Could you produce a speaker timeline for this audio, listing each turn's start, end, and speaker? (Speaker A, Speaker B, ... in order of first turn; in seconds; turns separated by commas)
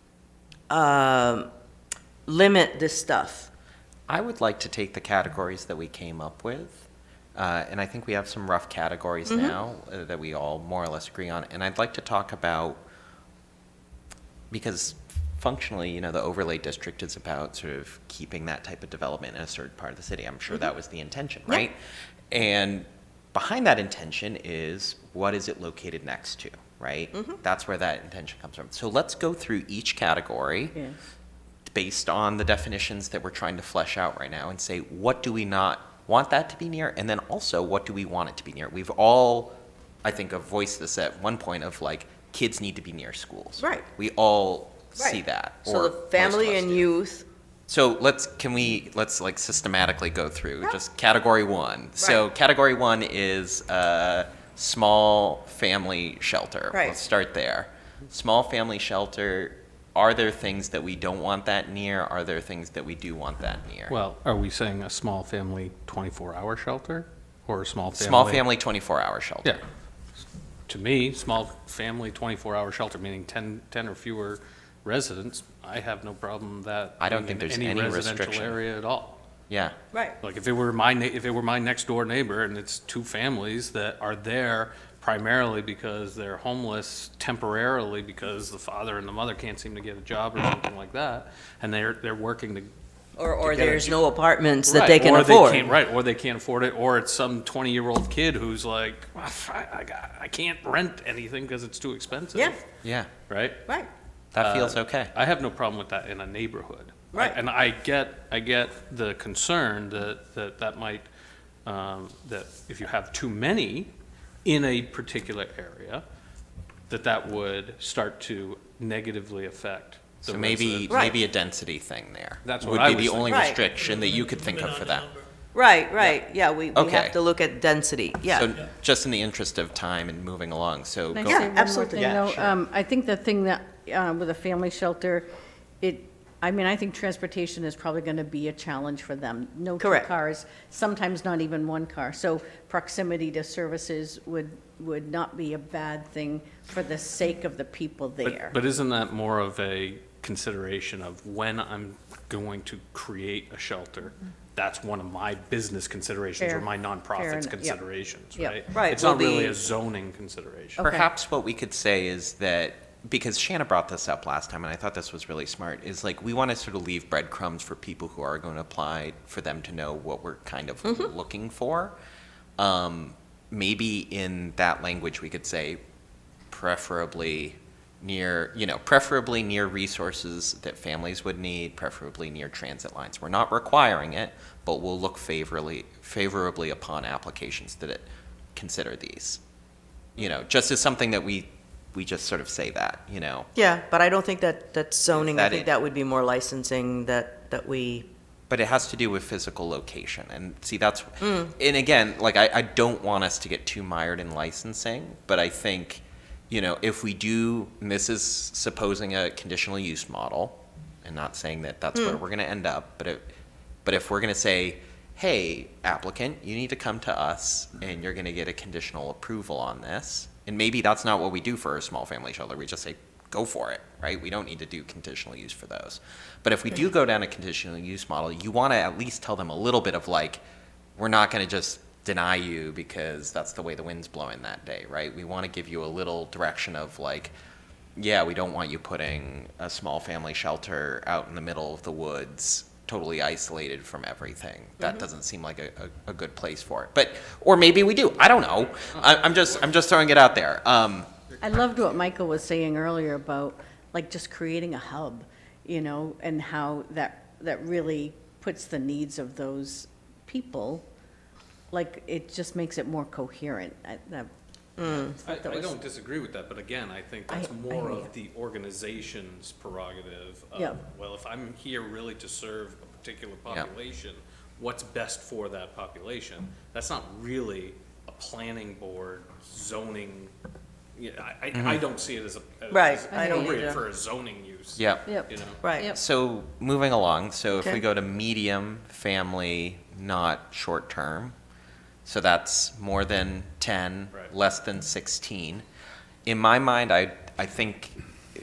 Speaker A: 0.7-1.5, Speaker A: 2.2-3.5, Speaker B: 4.1-12.8, Speaker A: 9.3-9.5, Speaker B: 14.5-21.8, Speaker B: 22.3-30.8, Speaker A: 27.1-27.4, Speaker B: 31.6-46.9, Speaker A: 43.6-43.9, Speaker A: 45.0-47.2, Speaker B: 47.7-64.0, Speaker A: 56.7-57.0, Speaker C: 63.9-68.5, Speaker B: 67.9-69.6, Speaker C: 70.7-79.2, Speaker B: 77.0-78.6, Speaker B: 79.5-79.7, Speaker C: 80.2-92.7, Speaker A: 93.2-95.7, Speaker C: 93.3-94.0, Speaker C: 94.7-102.6, Speaker B: 102.8-103.1, Speaker C: 103.3-103.6, Speaker B: 104.3-105.1, Speaker C: 104.4-111.1, Speaker C: 111.6-113.9, Speaker C: 114.4-116.0, Speaker C: 116.9-121.0, Speaker B: 120.2-125.2, Speaker A: 120.9-121.2, Speaker C: 122.4-123.3, Speaker A: 123.2-123.6, Speaker A: 125.5-128.5, Speaker B: 126.7-127.2, Speaker B: 128.3-131.5, Speaker D: 131.1-135.3, Speaker A: 131.2-132.5, Speaker D: 135.8-148.6, Speaker A: 139.8-140.1, Speaker C: 148.2-160.8, Speaker D: 156.4-157.8, Speaker A: 158.7-159.6, Speaker D: 160.8-161.1, Speaker B: 160.8-171.9, Speaker B: 172.6-175.8, Speaker B: 176.5-189.4, Speaker B: 190.2-193.5, Speaker A: 193.5-198.1, Speaker B: 195.1-195.7, Speaker B: 198.5-213.3, Speaker A: 201.2-201.5, Speaker A: 211.9-212.2, Speaker B: 213.8-230.4, Speaker B: 231.0-237.3, Speaker B: 237.9-251.1, Speaker A: 244.8-245.0, Speaker C: 248.7-249.7, Speaker D: 251.4-260.9, Speaker D: 261.7-264.3, Speaker A: 264.8-265.1, Speaker D: 264.9-265.8, Speaker C: 265.2-280.3, Speaker D: 267.3-268.1, Speaker C: 280.9-285.6, Speaker B: 281.5-281.8, Speaker A: 282.7-283.8, Speaker D: 283.1-283.6, Speaker B: 284.8-285.1, Speaker D: 285.1-286.0, Speaker A: 285.6-285.9, Speaker B: 285.9-291.3, Speaker A: 287.5-287.8, Speaker B: 292.1-295.6, Speaker B: 296.2-297.9